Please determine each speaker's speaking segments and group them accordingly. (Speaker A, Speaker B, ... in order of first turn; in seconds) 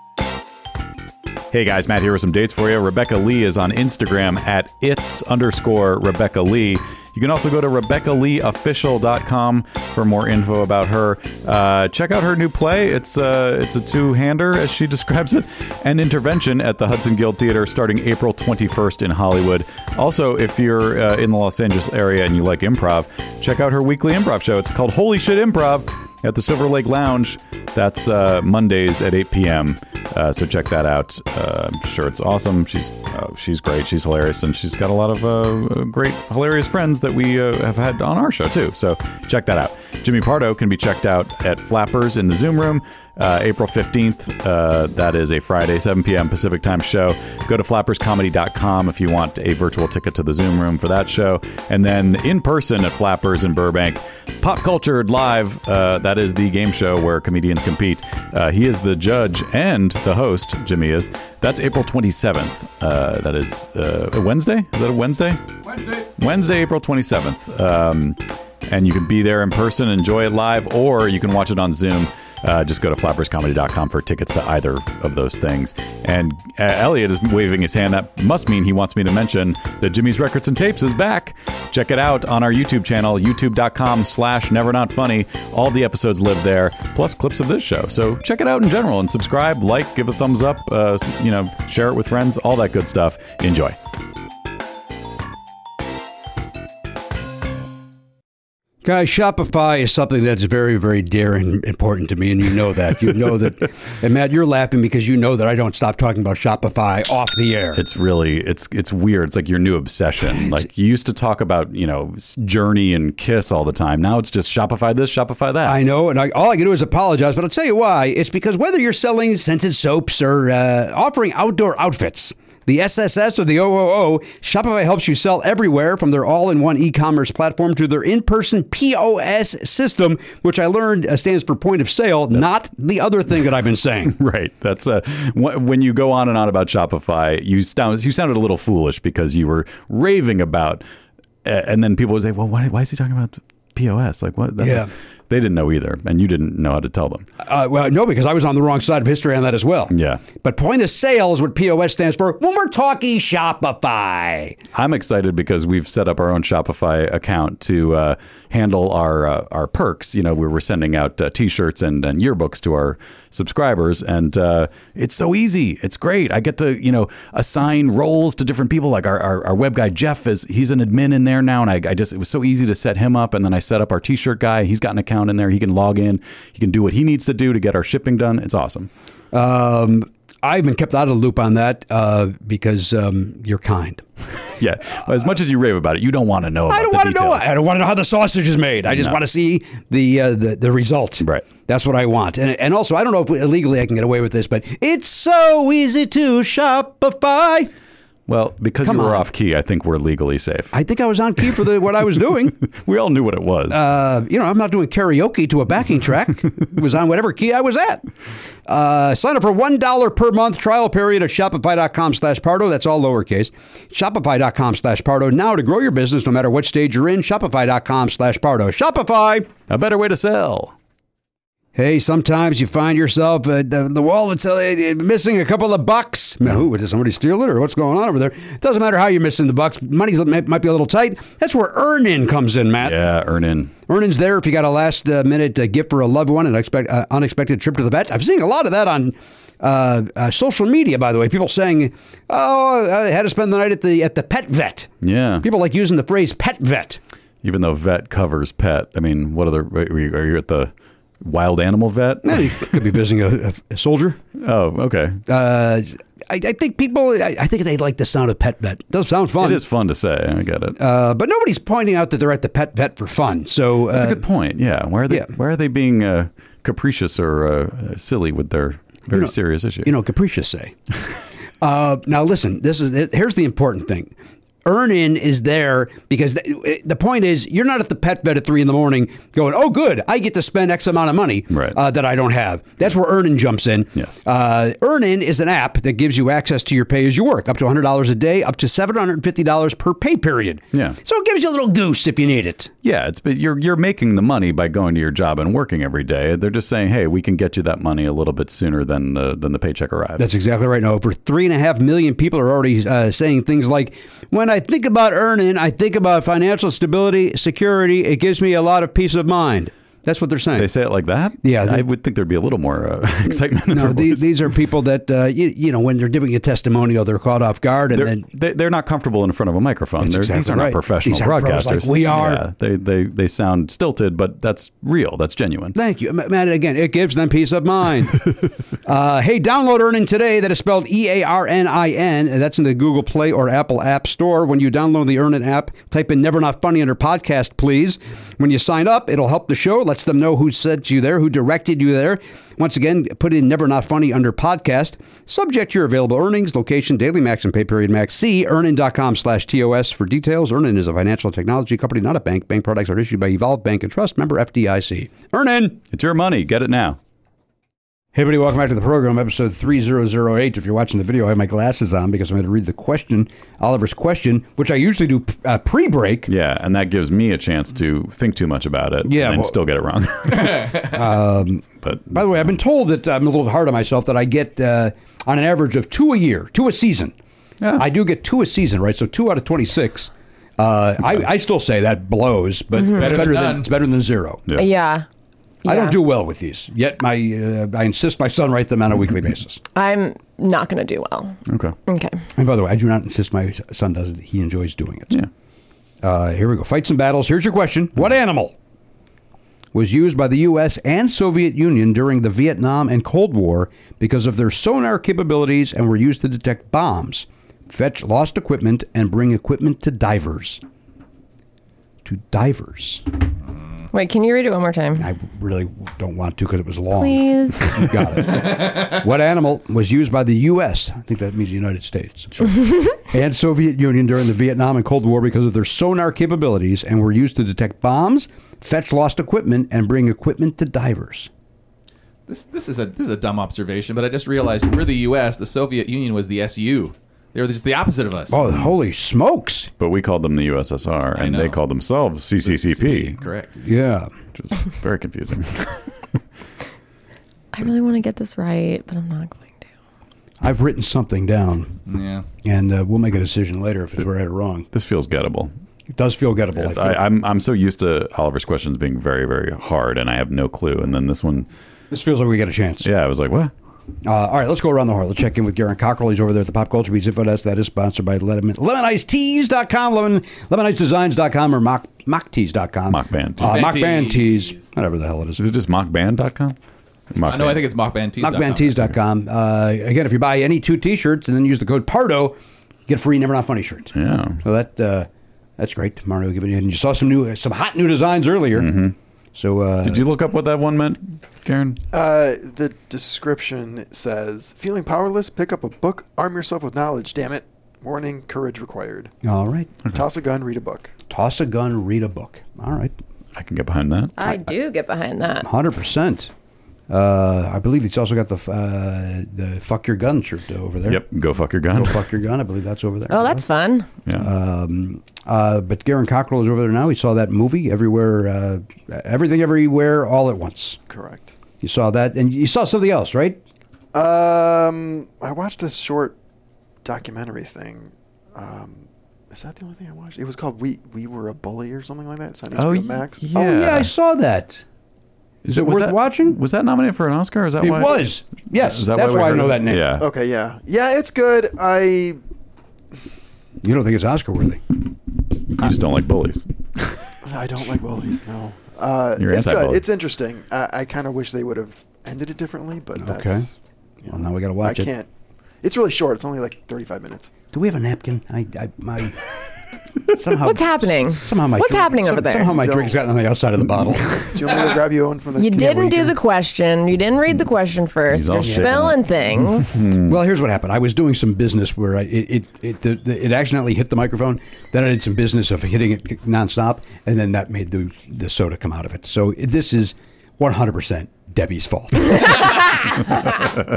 Speaker A: 1.5-65.4, 66.2-93.8, 107.7-115.8, 134.1-140.8, 141.4-147.3, 149.9-150.2, 154.7-178.9, 184.6-187.6, 191.2-191.4, 198.3-200.8, 202.7-203.8, 219.7-220.7, 232.8-233.7, 245.0-245.4, 247.4-252.6, 254.4-255.2, 259.4-260.8, 263.9-269.9, 292.8-300.3, 310.5-314.3, 317.9-325.8, 355.9-357.0, 366.3-370.9, 371.8-372.6, 377.6-377.9, 391.5-391.8, 439.8-443.1, 444.3-445.9, 454.7-455.5, 456.6-461.5, 462.8-463.5, 472.9-473.7, 475.4-476.6, 477.1-477.6, 483.9-484.4, 488.5-488.9, 489.8-491.8, 503.4-504.1, 510.8-512.0, 532.5-533.9, 535.4-540.1, 545.6-546.9, 549.2-549.8, 568.1-570.1
Speaker B: 65.7-66.0, 98.8-107.8, 110.3-110.7, 115.6-134.2, 144.6-144.9, 147.4-154.6, 179.3-184.0, 186.7-197.7, 198.8-199.3, 200.7-202.6, 203.7-208.1, 208.7-219.5, 221.7-233.0, 233.9-247.0, 252.2-254.2, 255.3-259.6, 260.8-264.2, 269.1-270.8, 271.6-274.1, 274.6-292.7, 300.2-310.7, 311.4-311.9, 313.7-318.2, 320.0-322.4, 325.7-355.8, 358.1-366.3, 369.0-369.6, 370.6-377.1, 377.8-384.5, 385.6-389.6, 392.4-395.2, 396.0-398.6, 399.7-410.6, 412.0-413.0, 415.0-431.3, 438.3-439.7, 443.6-444.1, 450.4-451.8, 452.4-454.7, 455.9-457.0, 461.9-462.9, 464.0-475.4, 478.2-488.8, 489.3-490.1, 499.2-499.8, 501.1-502.9, 504.2-504.5, 505.4-506.3, 506.9-511.1, 511.7-513.5, 514.1-520.8, 521.6-523.4, 533.3-534.6, 535.5-536.4, 537.6-539.9, 543.6-544.6, 553.0-553.5, 554.1-554.9, 557.5-559.2, 560.0-564.5, 568.4-568.8, 570.0-582.5
Speaker C: 382.7-383.7, 432.3-438.3, 441.1-441.6, 442.4-443.5, 451.9-452.2, 473.4-474.6, 477.2-478.7
Speaker D: 384.5-385.0, 385.6-386.0, 389.7-392.2, 413.9-415.1, 416.9-417.8, 447.5-449.6, 504.2-505.5, 513.1-513.9, 560.4-562.7, 565.4-569.9
Speaker E: 491.9-499.1, 499.9-500.9, 520.9-521.4, 523.9-526.1, 526.8-533.3, 540.0-542.2, 547.2-555.1, 555.6-557.4, 562.4-563.0, 564.3-566.1